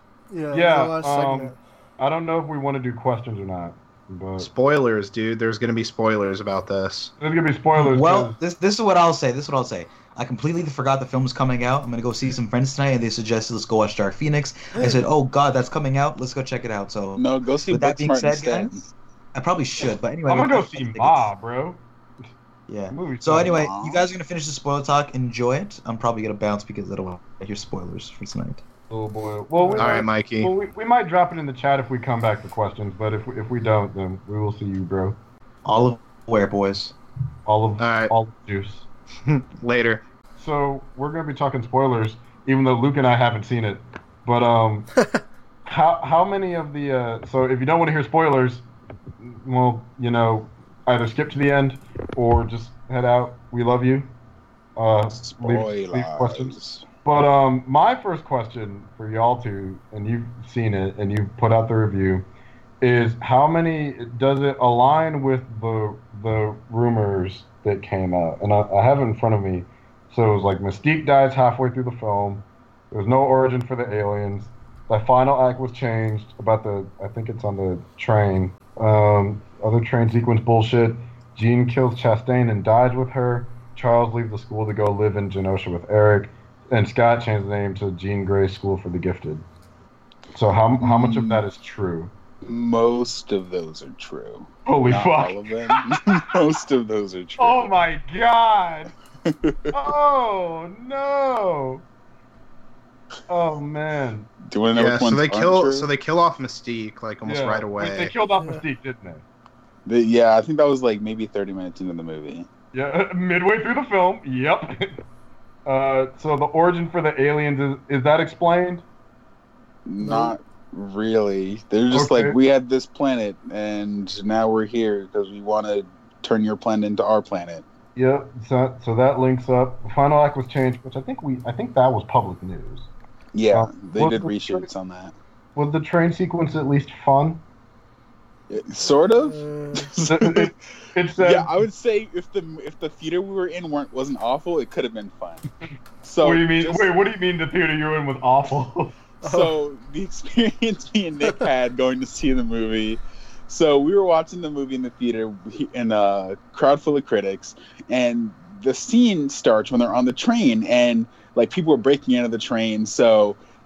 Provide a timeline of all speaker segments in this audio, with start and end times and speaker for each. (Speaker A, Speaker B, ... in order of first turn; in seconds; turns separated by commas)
Speaker A: 0.3-1.6, Speaker B: 0.5-4.5, Speaker C: 4.4-7.1, Speaker B: 7.2-8.4, Speaker D: 7.7-21.3, Speaker E: 17.2-18.9, Speaker B: 20.3-21.8, Speaker D: 22.7-28.6, Speaker B: 22.9-23.6, Speaker E: 23.4-24.0, Speaker B: 28.9-35.2, Speaker A: 29.6-29.9, Speaker C: 29.8-30.5, Speaker D: 35.6-36.9, Speaker B: 37.5-38.9, Speaker C: 37.8-38.1, Speaker C: 39.2-40.0, Speaker B: 40.4-44.9, Speaker B: 45.6-48.6, Speaker B: 49.2-54.1, Speaker B: 54.8-62.2, Speaker E: 55.1-56.8, Speaker B: 62.8-89.4, Speaker B: 90.3-92.1, Speaker E: 90.8-91.4, Speaker E: 92.4-97.7, Speaker B: 94.7-96.3, Speaker B: 97.4-98.9, Speaker E: 99.2-99.7, Speaker B: 99.7-101.8, Speaker B: 103.3-104.3, Speaker E: 104.4-105.9, Speaker C: 104.7-108.1, Speaker B: 107.2-109.2, Speaker E: 109.8-112.5, Speaker B: 112.7-115.0, Speaker B: 115.7-118.8, Speaker E: 119.8-127.6, Speaker B: 120.0-120.3, Speaker B: 121.9-122.4, Speaker B: 128.0-132.9, Speaker E: 133.3-135.1, Speaker B: 133.5-134.7, Speaker B: 135.6-137.4, Speaker E: 138.5-140.5, Speaker A: 139.1-139.9, Speaker B: 140.0-141.6, Speaker E: 141.2-145.5, Speaker E: 146.0-146.9, Speaker B: 146.2-148.9, Speaker E: 149.2-163.4, Speaker A: 149.2-149.5